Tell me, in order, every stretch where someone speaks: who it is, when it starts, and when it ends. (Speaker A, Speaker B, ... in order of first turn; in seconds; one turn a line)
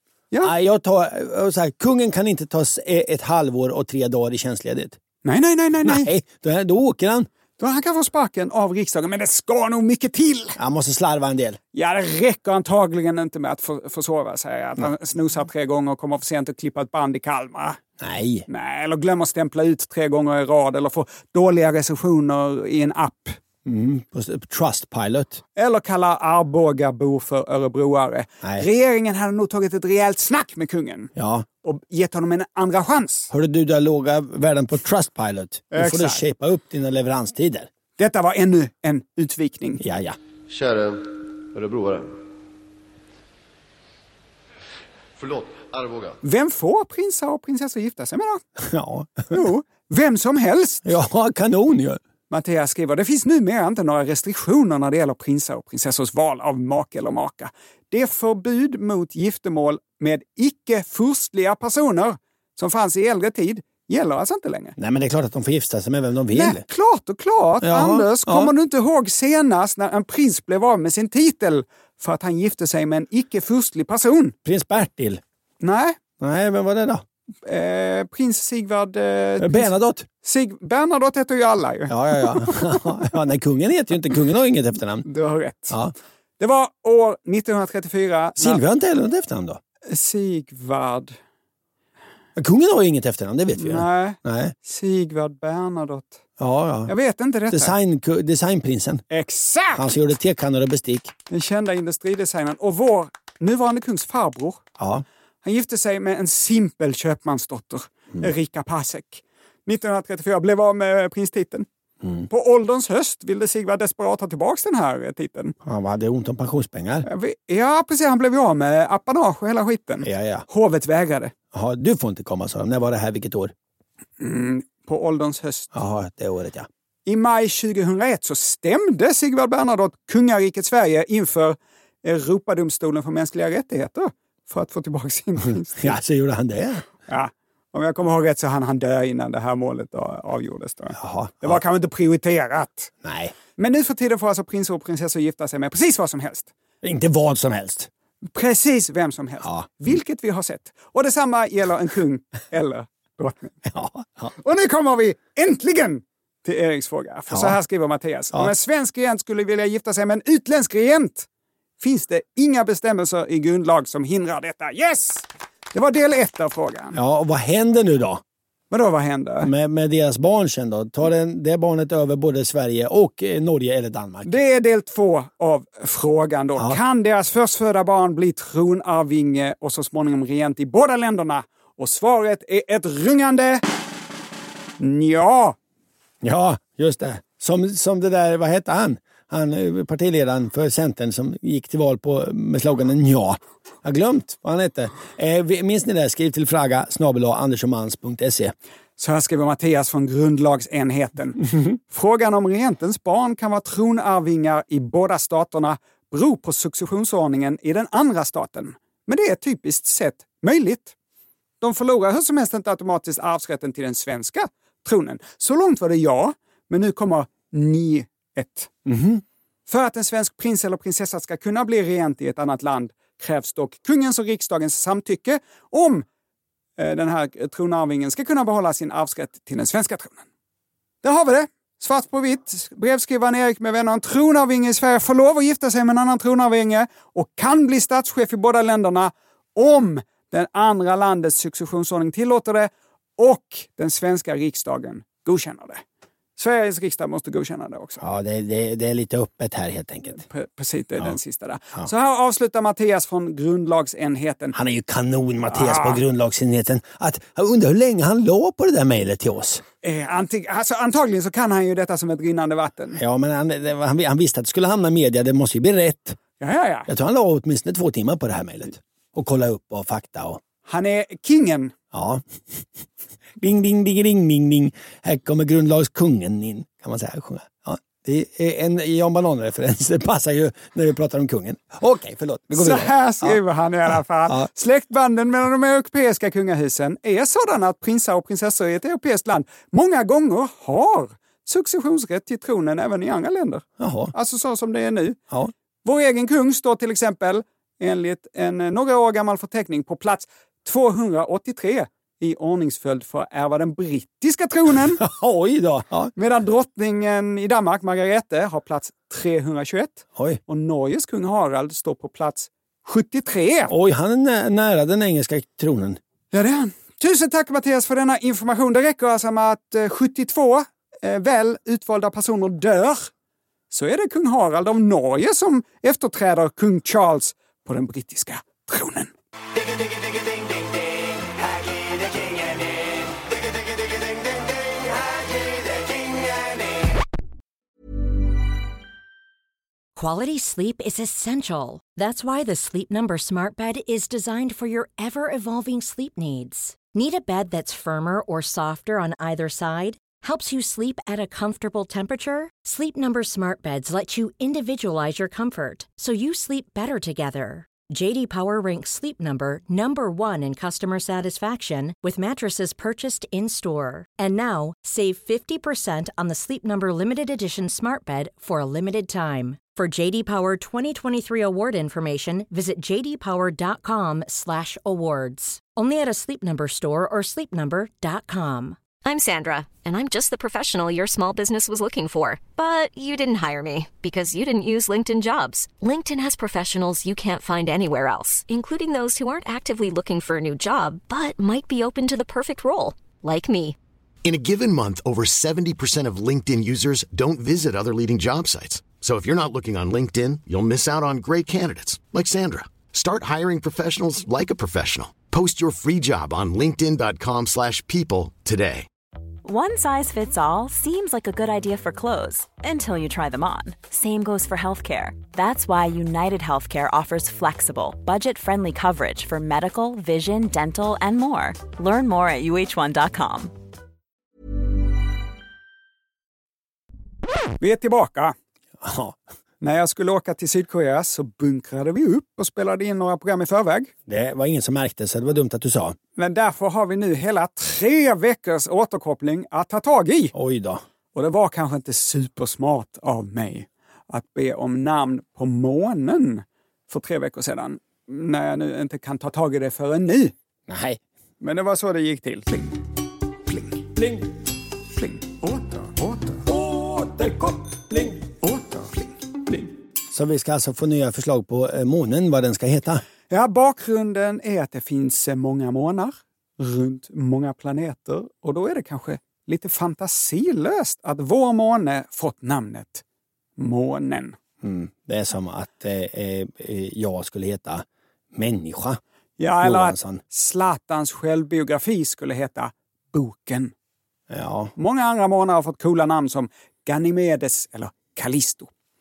Speaker A: 0.4-5.0
Speaker B: 5.2-6.1
Speaker A: 5.8-7.3
Speaker B: 7.6-10.6
Speaker A: 10.6-11.6
Speaker B: 11.7-17.8
Speaker A: 18.0-18.4
Speaker B: 18.5-23.4
Speaker A: 23.6-25.4
Speaker B: 25.6-31.1
Speaker A: 31.1-31.4
Speaker B: 31.6-33.3
Speaker A: 33.3-37.7
Speaker B: 35.7-36.2
Speaker B: 38.0-39.8
Speaker A: 39.8-40.2
Speaker C: 40.5-42.1
Speaker C: 45.2-46.2
Speaker B: 46.2-48.4
Speaker A: 48.6-49.4
Speaker B: 49.3-50.9
Speaker A: 50.8-52.0
Speaker B: 52.3-64.8
Speaker A: 64.8-66.6
Speaker B: 66.3-74.3
Speaker A: 67.6-68.5
Speaker A: 74.4-75.2
Speaker B: 75.6-76.0
Speaker A: 76.2-77.0
Speaker B: 77.4-79.7
Speaker A: 79.4-80.1
Speaker B: 80.2-82.9
Speaker A: 81.9-85.0
Speaker B: 85.0-85.8
Speaker B: 86.4-88.6
Speaker A: 88.4-89.6
Speaker B: 89.9-91.2
Speaker A: 92.3-94.5
Speaker B: 93.5-96.2
Speaker A: 96.4-96.9
Speaker B: 96.9-97.7
Speaker A: 97.5-99.0
Speaker B: 99.1-99.9
Speaker A: 99.7-101.1
Speaker B: 101.3-104.6
Speaker A: 104.8-105.0
Speaker B: 105.4-111.7
Speaker A: 112.0-112.3
Speaker B: 112.3-115.5
Speaker A: 115.6-117.0
Speaker B: 117.0-121.3
Speaker A: 120.0-120.5
Speaker A: 121.5-123.5
Speaker B: 124.2-125.7
Speaker A: 125.7-126.7
Speaker B: 127.0-136.0
Speaker A: 135.8-136.8
Speaker B: 137.1-142.9
Speaker A: 140.9-141.6
Speaker A: 143.0-143.3
Speaker B: 143.6-146.5
Speaker A: 146.8-147.9
Speaker B: 148.3-153.5
Speaker A: 149.4-149.7
Speaker A: 153.7-154.3
Speaker B: 154.4-161.3
Speaker A: 157.3-157.6
Speaker B: 161.8-167.0
Speaker A: 166.9-168.2
Speaker B: 168.7-169.5
Speaker A: 169.4-174.3
Speaker B: 174.2-183.6
Speaker B: 184.8-185.6
Speaker A: 186.2-198.5
Speaker B: 199.0-210.9
Speaker B: 211.6-218.7
Speaker A: 218.8-219.2
Speaker B: 219.7-226.0
Speaker B: 226.8-230.2
Speaker B: 231.0-245.8
Speaker B: 246.4-248.0
Speaker A: 248.0-250.2
Speaker B: 250.3-254.5
Speaker A: 254.5-259.6
Speaker B: 255.5-256.0
Speaker B: 259.8-263.0
Speaker A: 262.9-266.2
Speaker B: 266.4-266.9
Speaker A: 266.9-270.4
Speaker B: 270.7-271.7
Speaker A: 271.9-272.6
Speaker A: 273.4-283.4
Speaker B: 282.5-295.2
Speaker A: 293.8-294.1
Speaker B: 295.8-305.0
Speaker A: 305.0-306.1
Speaker B: 306.1-313.7
Speaker A: 313.7-316.0
Speaker B: 316.3-323.1
Speaker B: 323.7-329.1
Speaker D: 339.9-378.8
Speaker E: 379.0-393.8
Speaker F: 394.2-408.9
Speaker G: 409.4-423.5
Speaker B: 427.6-428.3
Speaker A: 428.8-429.2
Speaker B: 429.6-433.9
Speaker A: 434.1-436.0
Speaker B: 436.2-440.3
Speaker A: 440.3-440.8
Speaker B: 441.1-450.3
Speaker A: 450.7-451.0
Speaker B: 451.4-452.8
Speaker B: 453.5-453.8
Speaker A: 453.9-454.2
Speaker B: 454.9-456.4
Speaker A: 456.4-458.3
Speaker B: 458.4-459.1
Speaker A: 459.5-463.0
Speaker B: 463.3-473.0
Speaker B: 473.6-474.4
Speaker A: 474.6-479.0
Speaker B: 479.4-483.7
Speaker A: 479.6-480.2
Speaker A: 484.3-484.7
Speaker B: 484.8-488.7